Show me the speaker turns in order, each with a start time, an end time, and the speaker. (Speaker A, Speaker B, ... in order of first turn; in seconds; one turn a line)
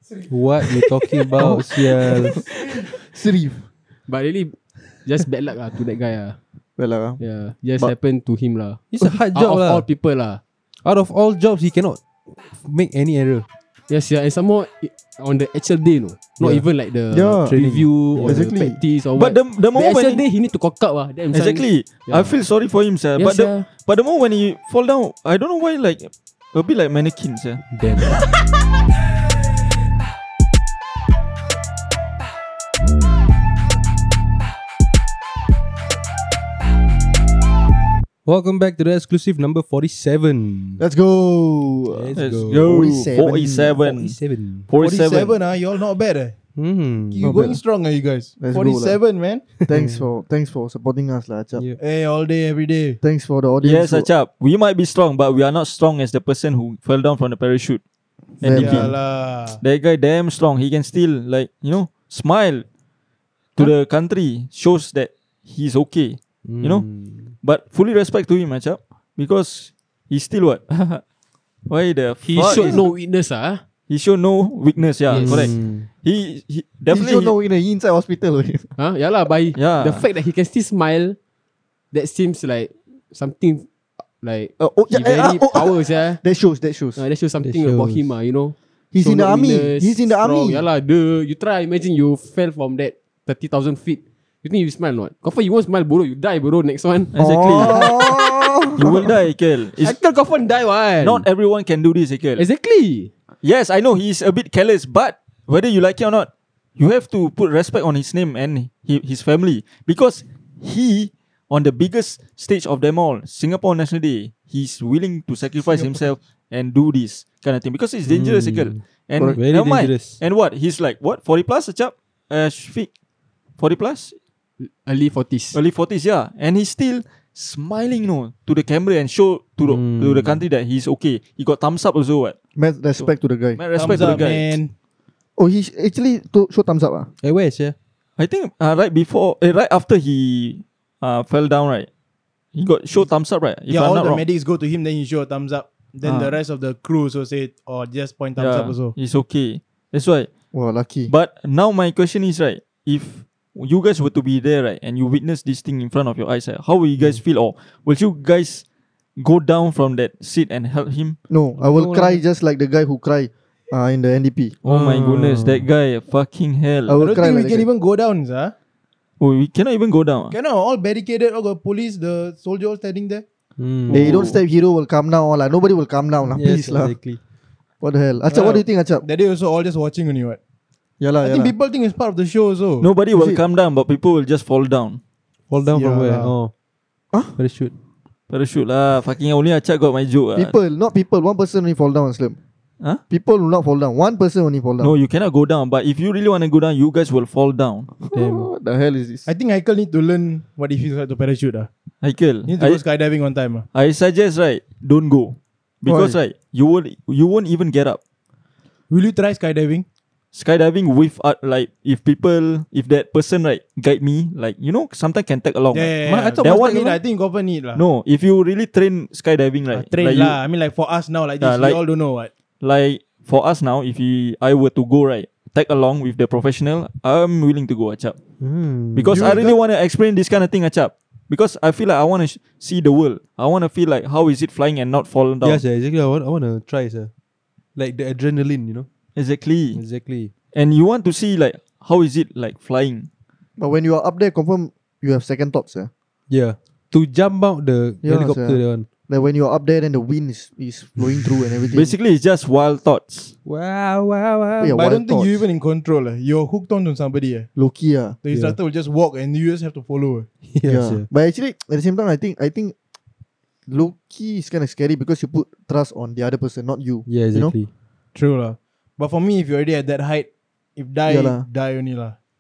Speaker A: 0.3-2.4
Speaker B: 1.4-2.8
Speaker C: 2.3-3.6
Speaker B: 4.1-6.4
Speaker C: 6.8-7.2
Speaker B: 7.2-10.4
Speaker A: 8.9-9.8
Speaker A: 10.8-13.4
Speaker B: 13.9-22.4
Speaker A: 16.4-16.6
Speaker C: 17.1-17.6
Speaker A: 17.5-18.5
Speaker C: 18.2-18.8
Speaker D: 19.1-20.2
Speaker D: 21.3-27.6
Speaker B: 23.2-23.7
Speaker A: 27.7-28.2
Speaker A: 38.2-40.8
Speaker C: 40.8-43.8
Speaker A: 41.9-42.9
Speaker D: 42.1-45.4
Speaker A: 43.5-44.7
Speaker E: 44.8-46.4
Speaker A: 46.6-47.4
Speaker E: 47.1-49.5
Speaker C: 47.2-47.6
Speaker C: 48.4-49.0
Speaker A: 49.6-50.1
Speaker C: 49.6-51.6
Speaker E: 51.8-53.0
Speaker C: 53.0-54.1
Speaker D: 53.6-57.8
Speaker D: 58.4-58.9
Speaker C: 58.4-58.9
Speaker E: 58.5-59.6
Speaker D: 59.6-62.6
Speaker D: 63.5-66.9
Speaker A: 66.4-67.3
Speaker D: 67.4-71.0
Speaker D: 71.7-72.9
Speaker B: 72.2-73.6
Speaker D: 73.9-77.3
Speaker B: 75.1-75.5
Speaker A: 75.1-75.9
Speaker C: 76.9-78.7
Speaker B: 78.8-81.2
Speaker D: 79.5-80.0
Speaker B: 81.9-86.2
Speaker C: 84.6-87.0
Speaker B: 87.0-98.1
Speaker A: 87.4-88.1
Speaker C: 88.9-90.6
Speaker D: 97.1-98.1
Speaker C: 97.2-99.1
Speaker D: 98.8-99.9
Speaker B: 99.8-101.2
Speaker D: 101.0-102.4
Speaker B: 102.4-103.1
Speaker D: 103.4-122.9
Speaker A: 118.0-120.2
Speaker D: 123.6-124.2
Speaker B: 124.6-125.6
Speaker D: 125.5-132.3
Speaker A: 129.6-130.4
Speaker C: 132.6-134.2
Speaker D: 133.0-134.6
Speaker E: 133.8-134.7
Speaker C: 135.4-137.1
Speaker A: 137.2-137.7
Speaker D: 138.2-141.9
Speaker D: 142.5-144.2
Speaker E: 143.7-148.9
Speaker D: 146.0-146.3
Speaker D: 148.4-150.3
Speaker C: 150.5-151.1
Speaker D: 151.1-158.6
Speaker D: 159.2-161.2
Speaker C: 161.3-164.6
Speaker A: 161.5-162.2
Speaker D: 164.6-167.0
Speaker A: 164.6-165.7
Speaker C: 166.9-167.7
Speaker E: 167.0-168.5
Speaker D: 169.2-170.3
Speaker E: 170.3-173.2
Speaker A: 173.6-174.4
Speaker C: 173.9-176.9
Speaker E: 173.9-174.3
Speaker A: 176.3-177.2
Speaker C: 177.8-179.0
Speaker E: 178.3-180.4
Speaker C: 181.0-181.5
Speaker E: 181.2-182.9
Speaker D: 182.8-185.0
Speaker C: 183.1-183.4
Speaker A: 185.5-186.5
Speaker E: 185.7-186.3
Speaker A: 187.3-187.7
Speaker D: 188.3-190.5
Speaker C: 190.3-192.4
Speaker C: 193.1-194.9
Speaker D: 194.8-197.9
Speaker C: 198.0-199.3
Speaker A: 198.1-198.5
Speaker E: 199.2-201.7
Speaker D: 202.0-202.8
Speaker E: 202.5-203.7
Speaker D: 203.7-208.0
Speaker C: 205.8-206.2
Speaker E: 208.9-209.8
Speaker D: 210.3-217.0
Speaker E: 215.7-217.8
Speaker A: 216.0-216.9
Speaker D: 217.7-220.4
Speaker E: 219.7-222.3
Speaker D: 221.4-221.8
Speaker D: 222.6-228.2
Speaker A: 228.4-229.4
Speaker D: 228.9-235.6
Speaker E: 229.1-229.6
Speaker A: 235.4-237.1
Speaker A: 237.8-238.9
Speaker D: 239.2-239.8
Speaker A: 239.7-240.3
Speaker D: 240.5-243.1
Speaker C: 243.6-245.9
Speaker A: 246.3-248.9
Speaker C: 248.0-251.9
Speaker D: 251.7-253.3
Speaker A: 253.4-254.7
Speaker C: 254.6-255.4
Speaker E: 254.7-257.5
Speaker C: 257.6-258.2
Speaker E: 258.2-260.3
Speaker A: 258.3-258.6
Speaker A: 260.5-261.1
Speaker C: 260.6-262.7
Speaker C: 263.7-267.5
Speaker A: 267.1-267.7
Speaker E: 268.1-272.1
Speaker C: 271.1-271.4